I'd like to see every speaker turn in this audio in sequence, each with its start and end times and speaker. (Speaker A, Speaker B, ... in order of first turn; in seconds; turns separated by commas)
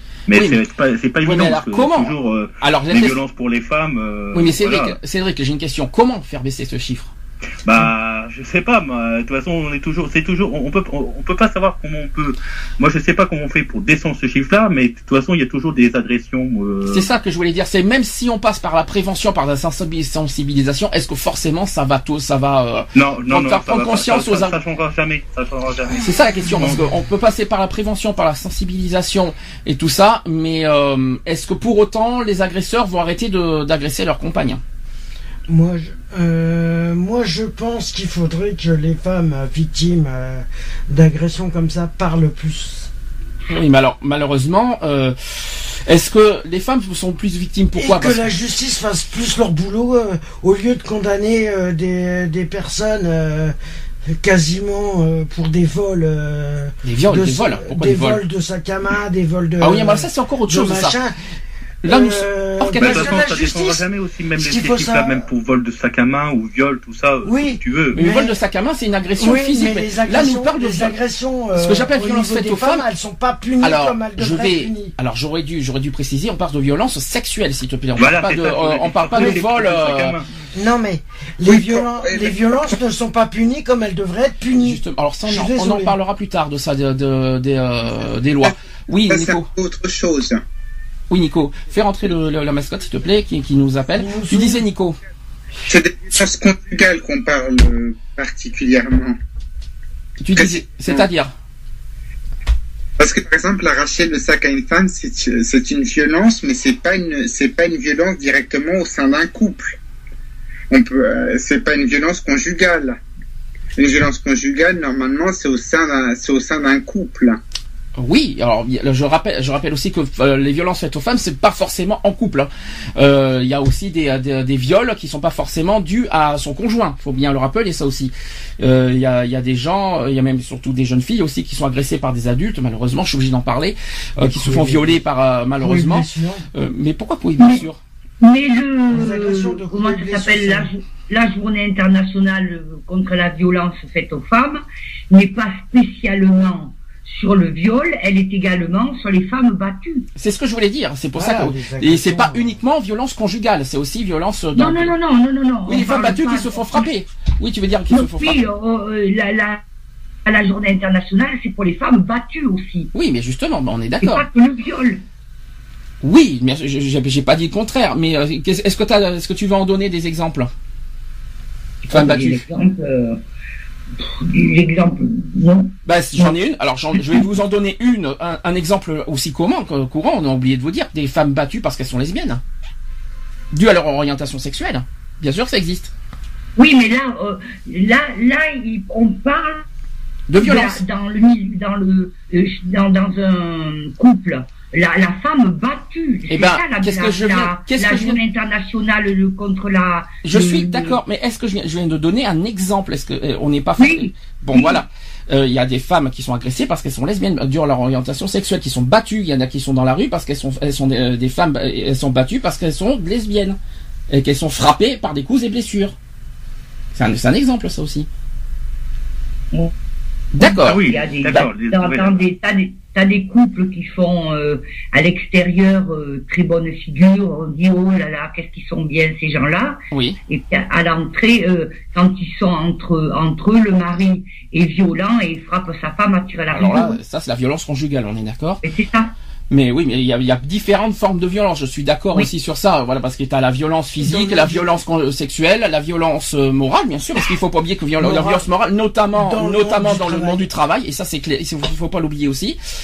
Speaker A: 0.3-5.0, Speaker B: 0.3-0.6, Speaker B: 1.2-3.2, Speaker B: 4.3-7.1, Speaker A: 7.6-17.1, Speaker B: 16.9-24.6, Speaker A: 22.9-26.9, Speaker B: 26.0-34.6, Speaker C: 35.5-42.9, Speaker B: 43.5-48.3, Speaker C: 47.7-53.5, Speaker C: 54.1-61.1, Speaker B: 56.8-58.2, Speaker B: 59.6-61.0, Speaker C: 61.8-63.8, Speaker B: 61.8-63.2, Speaker A: 62.8-68.0, Speaker C: 64.4-65.2, Speaker C: 67.2-68.4, Speaker B: 67.9-71.0, Speaker C: 69.2-74.9, Speaker B: 71.5-72.8, Speaker B: 73.6-80.1, Speaker A: 78.0-80.3, Speaker C: 79.1-79.4, Speaker C: 80.5-86.0, Speaker D: 81.5-82.8, Speaker B: 84.6-89.5, Speaker D: 89.1-90.4, Speaker B: 91.1-95.0, Speaker C: 94.0-94.6, Speaker D: 95.7-99.2, Speaker B: 100.2-101.3, Speaker D: 100.3-101.1, Speaker D: 103.0-109.8, Speaker D: 110.7-113.0, Speaker D: 113.8-117.4, Speaker B: 118.0-137.8, Speaker C: 134.2-135.0, Speaker C: 135.6-136.4, Speaker E: 138.2-150.1, Speaker C: 138.9-140.7, Speaker B: 150.2-154.9, Speaker C: 151.1-152.6, Speaker E: 154.5-156.8, Speaker B: 155.7-158.4, Speaker E: 157.9-159.6, Speaker E: 160.2-162.9, Speaker B: 162.9-164.2, Speaker E: 164.0-165.0, Speaker B: 166.0-170.5, Speaker E: 171.8-173.2, Speaker B: 171.9-172.4, Speaker E: 174.0-176.3, Speaker B: 175.8-182.4, Speaker B: 183.5-185.9, Speaker E: 186.6-189.6, Speaker B: 190.3-190.8, Speaker E: 190.3-201.0, Speaker B: 196.3-198.2, Speaker B: 200.2-213.6, Speaker E: 203.8-204.1, Speaker B: 214.1-215.9, Speaker B: 216.9-218.1, Speaker B: 220.3-221.5, Speaker E: 220.4-237.0, Speaker A: 220.6-222.2, Speaker B: 229.9-230.2, Speaker B: 236.5-238.6, Speaker E: 238.6-239.1, Speaker B: 239.5-252.6, Speaker C: 244.0-244.7, Speaker C: 248.0-248.5, Speaker C: 249.1-250.5